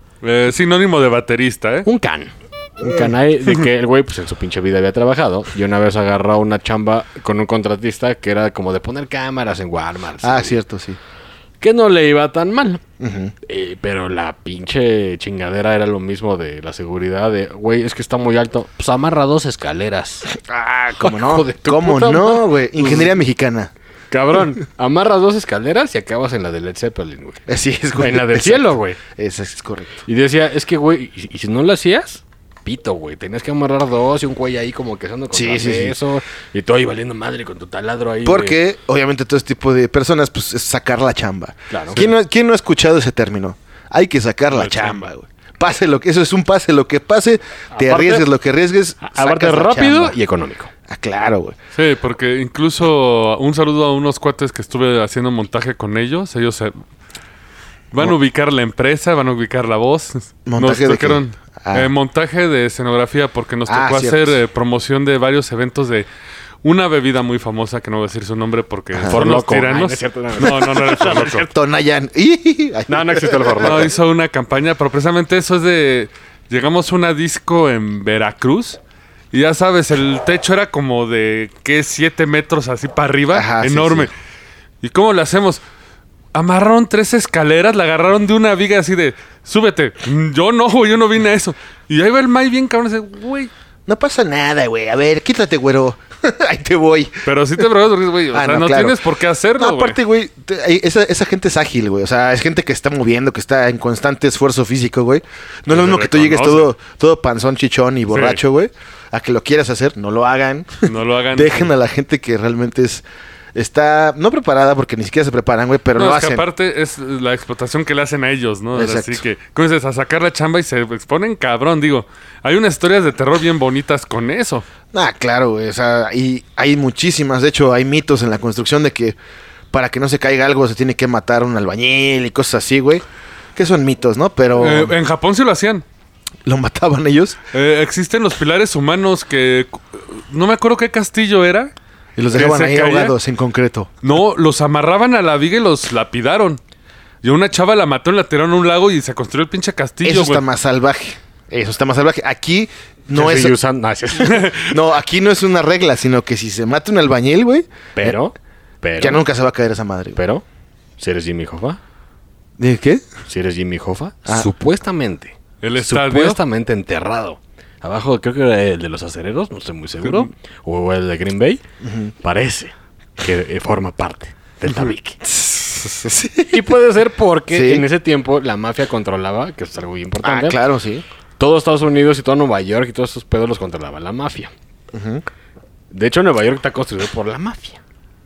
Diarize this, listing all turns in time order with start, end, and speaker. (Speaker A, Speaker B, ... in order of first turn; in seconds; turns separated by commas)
Speaker A: 0.2-1.9, Speaker B: 1.8-10.6, Speaker C: 10.2-11.0, Speaker B: 11.6-12.8, Speaker C: 13.0-13.3, Speaker B: 13.4-20.3, Speaker C: 20.3-23.7, Speaker B: 21.0-23.1, Speaker B: 24.1-27.4, Speaker C: 27.5-30.0, Speaker B: 28.0-29.0, Speaker B: 30.1-38.6, Speaker C: 35.3-36.0, Speaker C: 38.2-50.1, Speaker B: 41.7-42.1, Speaker A: 44.5-45.1, Speaker B: 47.7-48.3, Speaker B: 49.0-50.7, Speaker C: 50.9-51.6, Speaker A: 51.7-56.7, Speaker A: 57.9-66.1, Speaker C: 60.5-61.9, Speaker C: 63.7-64.4, Speaker A: 66.6-71.5, Speaker C: 68.9-69.2, Speaker B: 69.1-71.4, Speaker C: 71.0-73.9, Speaker B: 72.9-73.9, Speaker A: 73.6-78.8, Speaker A: 79.3-84.1, Speaker C: 83.3-84.1, Speaker A: 84.8-85.6, Speaker A: 86.3-93.5, Speaker C: 93.9-97.3, Speaker A: 97.2-100.0, Speaker C: 98.3-99.0, Speaker C: 99.6-113.0, Speaker A: 105.7-106.7, Speaker A: 108.1-108.4, Speaker A: 110.8-111.7, Speaker C: 113.5-116.4, Speaker A: 116.0-124.6, Speaker C: 118.7-119.2, Speaker C: 124.9-129.2, Speaker C: 129.7-133.0, Speaker C: 133.5-134.9, Speaker A: 134.6-135.8, Speaker C: 136.4-137.4, Speaker A: 137.5-141.7, Speaker C: 142.2-143.9, Speaker A: 142.3-143.2, Speaker A: 144.0-146.6, Speaker A: 147.2-150.4, Speaker C: 150.0-153.6, Speaker B: 153.1-154.5, Speaker C: 154.2-158.2, Speaker A: 154.2-154.7, Speaker B: 157.9-159.2, Speaker C: 159.0-160.2, Speaker B: 160.2-160.4, Speaker B: 161.0-161.8, Speaker C: 162.6-163.0, Speaker B: 163.3-171.6, Speaker A: 165.6-166.4, Speaker C: 171.8-172.1, Speaker B: 172.2-175.2, Speaker C: 175.2-176.6, Speaker B: 176.5-180.6, Speaker C: 177.5-177.8, Speaker C: 180.2-181.0, Speaker B: 181.4-184.5, Speaker C: 184.9-185.2, Speaker B: 185.9-187.8